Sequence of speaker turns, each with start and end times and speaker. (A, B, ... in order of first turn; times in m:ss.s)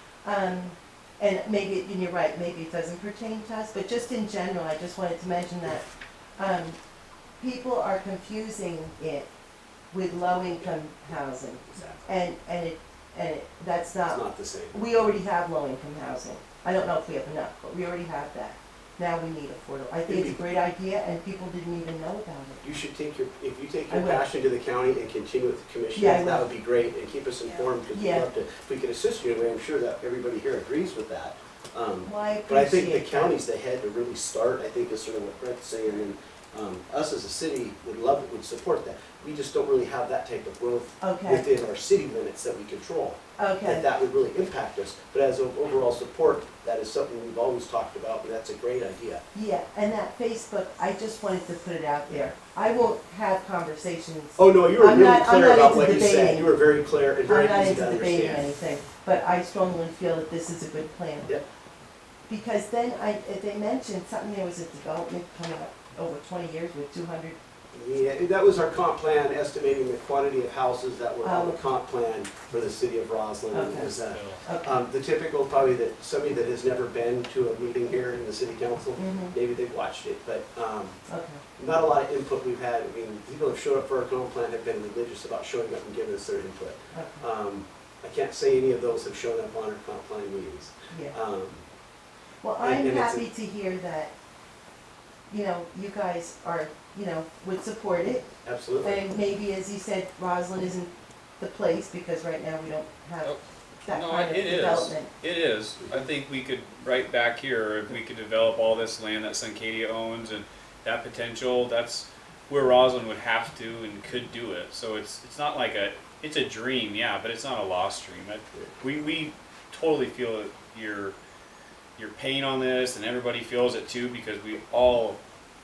0:00.2-0:06.8 A
0:07.4-0:09.3 A
0:09.9-0:22.6 A
0:11.7-0:12.1 B
0:14.0-0:14.8 B
0:20.1-0:20.4 B
0:22.6-0:49.2 B
0:23.9-0:24.3 A
0:25.9-0:26.5 A
0:27.9-0:28.3 A
0:32.1-0:33.4 A
0:41.0-0:41.5 A
0:43.4-0:43.8 A
0:49.3-0:56.5 A
0:54.4-0:58.5 B
0:57.3-1:01.3 A
1:02.3-1:07.4 A
1:07.7-1:21.0 B
1:11.2-1:11.6 A
1:13.5-1:14.8 A
1:14.1-1:14.4 C
1:19.0-1:19.4 A
1:21.1-1:21.4 A
1:21.6-1:31.6 B
1:26.9-1:27.2 A
1:30.9-1:31.2 A
1:32.4-1:34.1 A
1:32.6-1:33.2 B
1:35.3-1:38.3 A
1:38.4-1:39.0 B
1:38.8-1:45.1 A
1:43.2-2:01.2 C
2:02.0-2:05.2 C